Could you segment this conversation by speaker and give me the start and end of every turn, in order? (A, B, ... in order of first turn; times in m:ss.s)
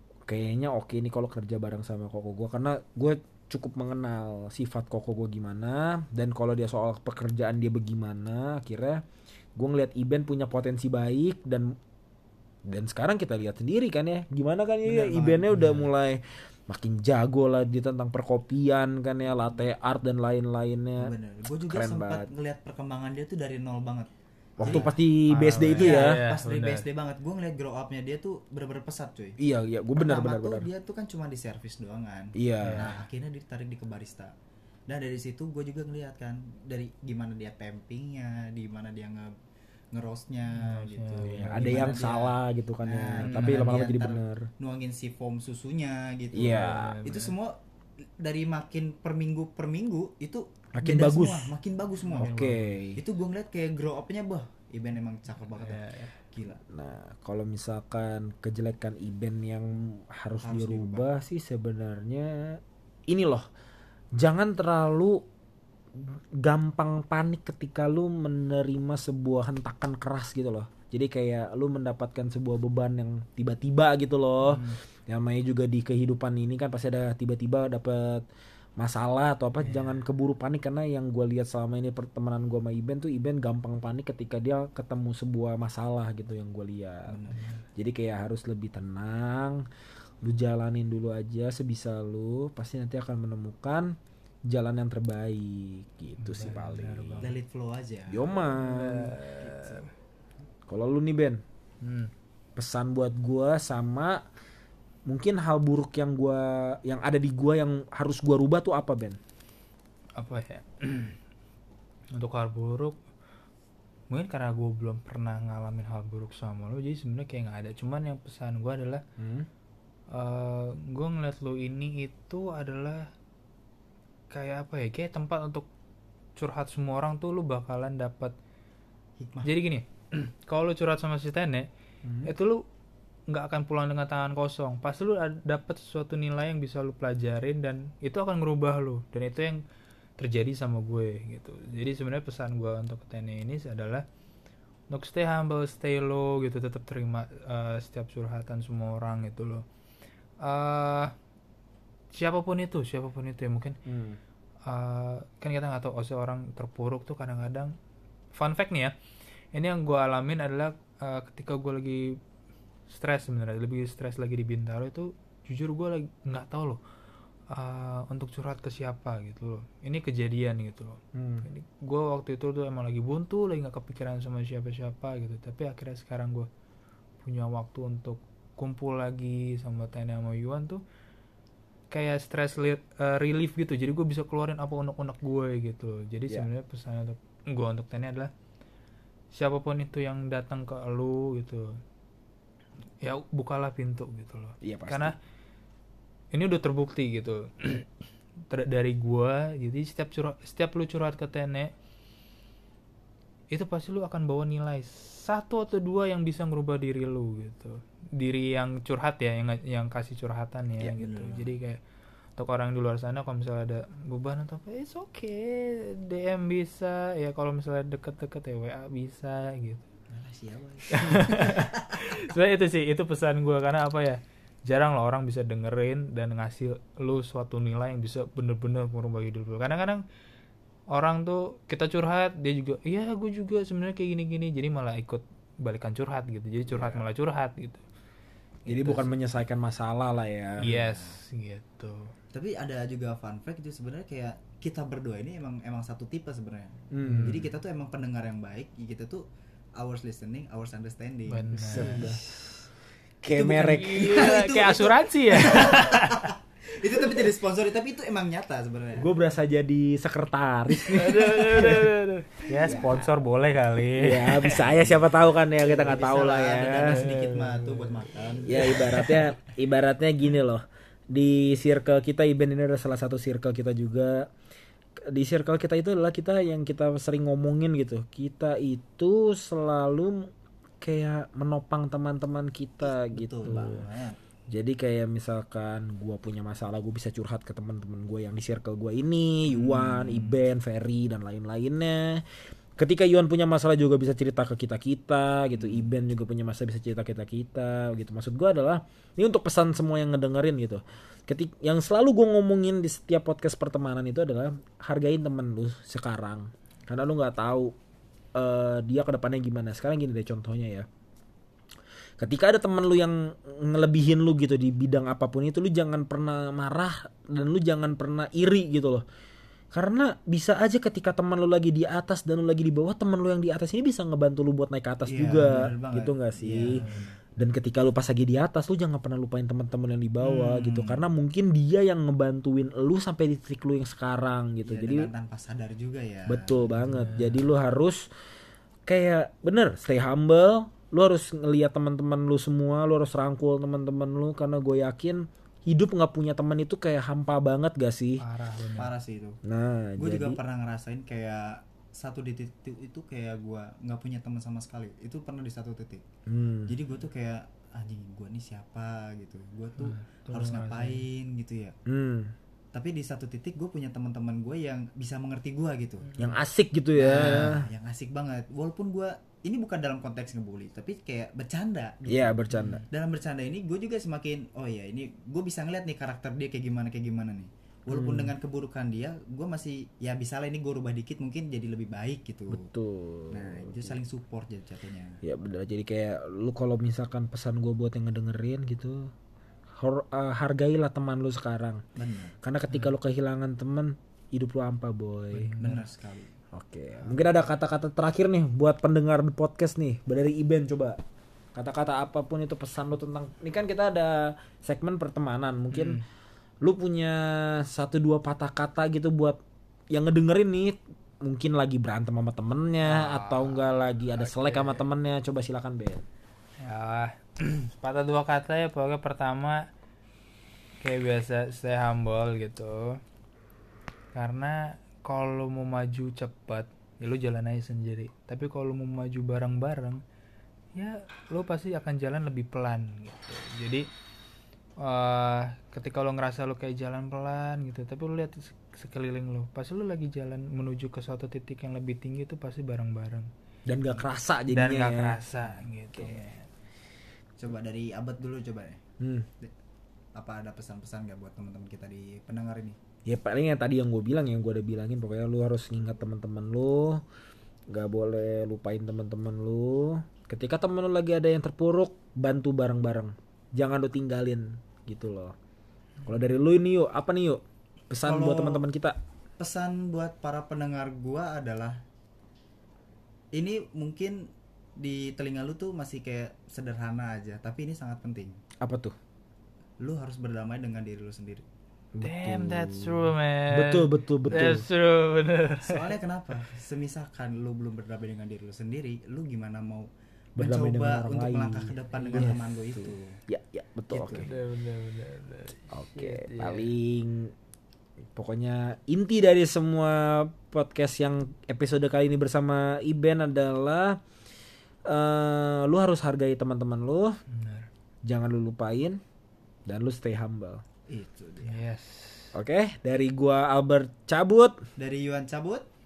0:00.3-0:09.0 A
0:09.6-0:11.8 A
0:12.6-0:21.1 A
0:14.9-0:15.4 B
0:15.4-0:15.9 C
0:21.0-0:24.9 B
0:21.6-0:22.3 A
0:24.6-0:26.2 A
0:24.6-0:26.8 C
0:25.7-0:29.4 B
0:29.4-0:30.7 A
0:30.0-0:34.3 B
0:32.3-0:32.9 A
0:32.6-0:33.0 C
0:34.9-0:39.3 B
0:39.9-0:47.6 B
0:40.5-0:42.0 C
0:41.3-0:44.5 A
0:43.2-0:43.8 C
0:46.3-0:47.0 A
0:46.4-0:47.3 C
0:48.2-0:52.3 B
0:50.7-0:51.5 A
0:52.0-0:52.8 C
0:52.2-0:53.0 A
0:53.0-0:56.6 B
0:55.6-0:56.1 C
0:56.7-1:03.4 A
1:00.4-1:01.0 B
1:04.2-1:05.2 A
1:05.9-1:18.2 A
1:14.4-1:14.8 C
1:18.8-1:27.2 A
1:19.6-1:20.0 C
1:27.1-1:27.5 B
1:27.8-1:29.6 A
1:30.2-1:34.0 A
1:34.5-1:37.2 A
1:36.2-1:37.3 C
1:37.2-1:38.3 B
1:38.1-1:39.1 A
1:38.5-1:39.9 C
1:39.4-1:39.8 B
1:40.7-1:41.4 A
1:41.8-1:42.1 C
1:42.6-1:44.2 A
1:45.1-1:49.2 A
1:50.2-1:51.2 C
1:52.1-1:53.0 C
1:54.1-1:59.0 C
1:59.2-1:59.5 A
2:00.1-2:03.1 C
2:04.3-2:05.7 C
2:06.4-2:08.3 C
2:09.2-2:09.5 B
2:09.4-2:11.7 C
2:12.0-2:12.3 A
2:12.2-2:12.6 C
2:13.3-2:19.6 C
2:20.2-2:24.0 C
2:24.9-2:29.6 C
2:30.4-2:31.1 C
2:32.1-2:33.8 C
2:33.8-2:34.2 A
2:34.7-2:37.7 C
2:38.3-2:38.9 C
2:39.5-2:42.2 C
2:42.9-2:46.8 C
2:47.5-2:56.5 C
2:51.1-2:51.4 A
2:57.2-3:00.8 C
3:01.9-3:08.3 C
3:09.3-3:11.8 C
3:13.0-3:15.2 C
3:14.6-3:15.1 A
3:16.3-3:17.9 C
3:18.5-3:21.7 C
3:23.5-3:31.8 C
3:31.0-3:31.6 B
3:32.4-3:39.8 C
3:40.1-3:42.0 B
3:40.9-3:50.0 C
3:50.9-3:57.8 C
3:56.7-3:57.0 B
3:58.6-3:59.1 C
3:58.7-4:00.8 A
4:00.6-4:02.1 C
4:00.8-4:01.1 B
4:02.3-4:09.2 B
4:06.9-4:07.5 A
4:07.0-4:07.4 C
4:09.8-4:12.2 B
4:11.3-4:12.1 C
4:11.5-4:12.6 A
4:13.2-4:14.7 A
4:13.3-4:16.3 C
4:14.0-4:19.1 B
4:19.0-4:21.9 A
4:20.8-4:24.9 C
4:22.6-4:23.0 A
4:24.0-4:27.1 A
4:25.6-4:29.2 B
4:26.8-4:28.1 C
4:28.4-4:34.3 A
4:28.6-4:29.1 C
4:35.1-4:40.3 A
4:40.8-4:43.8 A
4:42.8-4:44.2 B
4:43.5-4:43.8 C
4:44.5-4:52.2 A
4:49.5-4:50.4 B
4:52.8-5:07.7 A
4:55.5-4:55.9 B
5:08.4-5:10.9 A
5:12.2-5:19.0 A
5:19.7-5:26.8 A
5:25.0-5:27.2 B
5:26.7-5:27.1 C
5:27.4-5:35.1 A
5:30.2-5:31.1 B
5:34.6-5:36.8 B
5:36.3-5:38.1 A
5:36.8-5:37.4 C
5:38.8-5:48.2 A
5:48.2-5:48.9 C
5:48.8-5:49.4 B
5:49.4-5:50.4 A
5:50.0-5:56.0 B
5:56.3-5:56.8 A
5:56.7-6:01.8 B
5:59.8-6:01.0 C
6:01.8-6:02.3 A
6:02.7-6:06.1 B
6:06.2-6:07.7 A
6:06.9-6:22.7 B
6:12.0-6:12.8 A
6:12.5-6:12.8 C
6:17.9-6:18.3 A
6:22.5-6:24.0 A
6:23.3-6:25.2 B
6:25.2-6:29.1 A
6:29.7-6:31.8 A
6:32.0-6:32.4 B
6:32.4-6:35.5 A
6:35.3-6:35.9 C
6:35.6-6:36.3 B
6:36.5-6:41.0 A
6:41.5-6:46.0 A
6:45.7-6:46.0 C
6:46.6-6:49.4 A
6:49.9-6:56.0 A
6:52.8-6:54.8 C
6:56.6-6:59.7 C
7:00.8-7:03.0 C
7:04.1-7:10.0 C
7:10.7-7:13.9 C
7:14.8-7:23.3 C
7:23.7-7:25.2 A
7:24.5-7:26.5 C
7:25.9-7:26.2 A
7:27.4-7:28.8 B
7:29.0-7:29.3 A
7:30.2-7:32.8 B
7:33.0-7:37.0 A
7:37.7-7:45.3 A
7:46.0-7:49.0 A
7:48.0-7:48.6 B
7:49.4-7:51.8 B
7:53.3-7:58.4 B
7:58.6-7:58.9 A
7:59.8-8:01.4 B
8:01.9-8:04.7 A
8:02.0-8:05.9 C
8:05.6-8:13.2 B
8:10.4-8:14.3 A
8:11.9-8:12.4 C
8:13.9-8:14.3 B
8:14.2-8:16.7 C
8:15.7-8:17.3 A
8:18.1-8:24.0 A
8:24.8-8:27.2 A
8:27.3-8:27.7 C
8:28.0-8:29.0 A
8:29.6-8:30.6 A
8:30.9-8:31.6 B
8:31.4-8:32.3 C
8:32.3-8:34.6 A
8:34.8-8:35.6 B